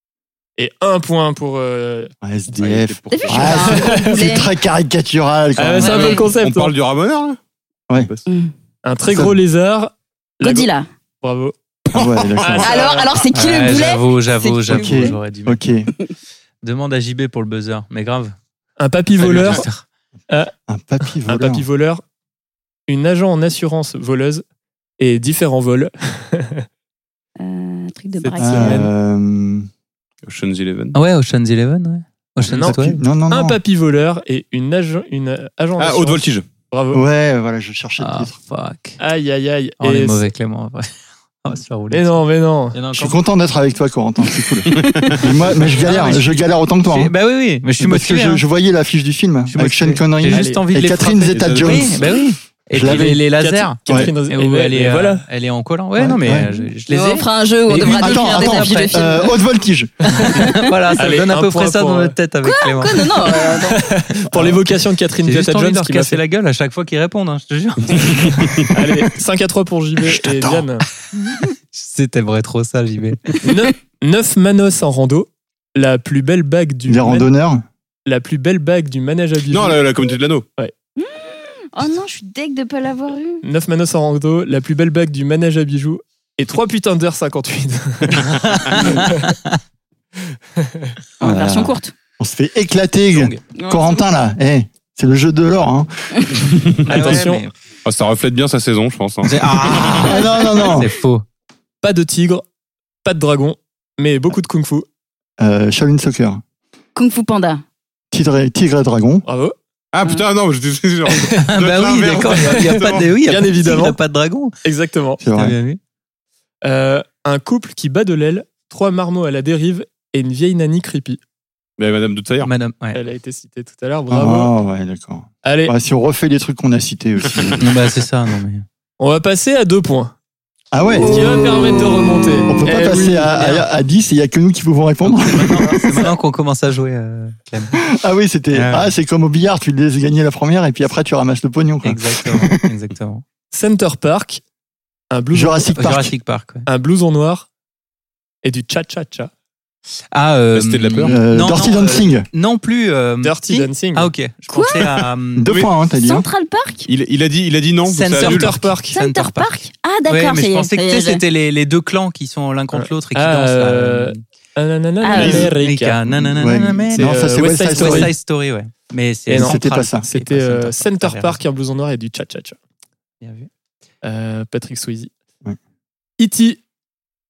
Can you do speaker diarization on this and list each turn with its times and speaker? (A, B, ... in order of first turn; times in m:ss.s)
0:00.6-0:02.1 A
0:02.2-0:06.2 B
0:02.5-0:03.8 C
0:03.1-0:04.5 D
0:03.6-0:04.2 A
0:05.6-0:06.7 A
0:05.8-0:06.3 D
0:06.0-0:07.4 C
0:07.9-0:08.2 C
0:08.3-0:08.5 D
0:08.8-0:10.7 A
0:09.1-0:09.4 B
0:10.4-0:10.9 D
0:11.2-0:11.5 A
0:11.9-0:12.8 B
0:12.4-0:13.1 A
0:12.6-0:15.2 D
0:13.3-0:15.6 E
0:14.7-0:15.9 B
0:16.6-0:18.3 E
0:18.8-0:19.6 A
0:19.2-0:19.8 E
0:19.2-0:19.6 C
0:20.7-0:21.6 B
0:21.0-0:22.0 A
0:22.9-0:24.4 A
0:25.0-0:26.6 A
0:27.4-0:28.9 D
0:28.3-0:28.9 A
0:28.4-0:29.7 B
0:30.2-0:31.0 C
0:30.9-0:33.0 E
0:32.5-0:37.0 A
0:32.6-0:33.6 B
0:35.8-0:36.4 C
0:36.9-0:38.3 B
0:38.0-0:39.0 E
0:39.0-0:40.3 A
0:39.8-0:42.2 E
0:41.9-0:42.8 A
0:42.7-0:43.2 E
0:42.9-0:47.1 B
0:44.7-0:45.3 C
0:45.7-0:48.4 E
0:47.8-0:52.0 B
0:49.5-0:59.0 E
0:50.3-0:50.6 A
0:51.3-0:52.2 C
0:52.7-0:53.2 B
0:53.3-0:55.2 A
0:53.9-0:54.1 B
0:56.0-0:56.5 B
0:56.9-0:59.3 D
0:57.8-0:59.9 B
1:00.1-1:03.1 E
1:00.3-1:00.6 D
1:01.0-1:02.2 A
1:02.4-1:03.9 D
1:03.2-1:06.2 A
1:04.3-1:04.6 B
1:05.2-1:08.5 E
1:08.2-1:08.5 C
1:08.7-1:10.8 A
1:11.1-1:13.4 E
1:13.4-1:17.3 A
1:16.9-1:17.6 B
1:18.0-1:19.8 A
1:19.5-1:20.4 C
1:21.0-1:23.4 D
1:23.4-1:29.3 A
1:28.3-1:29.6 E
1:30.6-1:30.9 A
1:31.2-1:31.9 D
1:31.2-1:35.9 B
1:33.5-1:34.0 D
1:36.4-1:37.2 C
1:36.8-1:37.4 A
1:36.9-1:37.5 E
1:37.8-1:39.9 C
1:39.2-1:41.2 E
1:40.0-1:40.9 B
1:41.8-1:42.4 A
1:43.0-1:44.8 A
1:45.4-1:46.4 B
1:47.0-1:47.6 D
1:48.1-1:49.2 B
1:49.2-1:49.6 A
1:49.9-1:53.1 C
1:51.4-1:54.5 E
1:52.3-1:54.0 A
1:54.6-1:55.2 A
1:55.2-1:55.6 B
1:55.3-1:55.8 E
1:56.6-2:01.2 A
2:01.8-2:02.5 C
2:02.4-2:03.0 E
2:02.9-2:04.5 A
2:04.1-2:07.6 B
2:05.4-2:05.7 A
2:07.6-2:08.6 E
2:09.0-2:10.1 A
2:10.7-2:11.7 B
2:11.0-2:13.6 A
2:12.5-2:15.9 B
2:15.0-2:17.8 E
2:17.8-2:22.6 B
2:18.5-2:18.9 E
2:21.8-2:23.2 E
2:23.5-2:24.4 A
2:25.1-2:25.7 A
2:25.3-2:26.1 B
2:25.7-2:26.7 E
2:26.7-2:27.5 A
2:28.4-2:29.3 A
2:30.1-2:35.5 E
2:30.5-2:31.2 C
2:31.0-2:32.3 B
2:33.2-2:34.1 A
2:34.5-2:34.8 D
2:35.3-2:36.3 B
2:36.0-2:36.9 D
2:36.8-2:38.6 C
2:37.8-2:44.2 E
2:38.2-2:39.0 A
2:38.9-2:41.2 D
2:42.7-2:46.0 A
2:45.0-2:45.5 D
2:45.2-2:51.4 E
2:46.1-2:48.1 B
2:47.0-2:48.1 A
2:49.3-2:52.6 A
2:49.3-2:50.0 B
2:53.2-2:53.5 E
2:54.0-2:55.1 A
2:56.2-2:56.6 A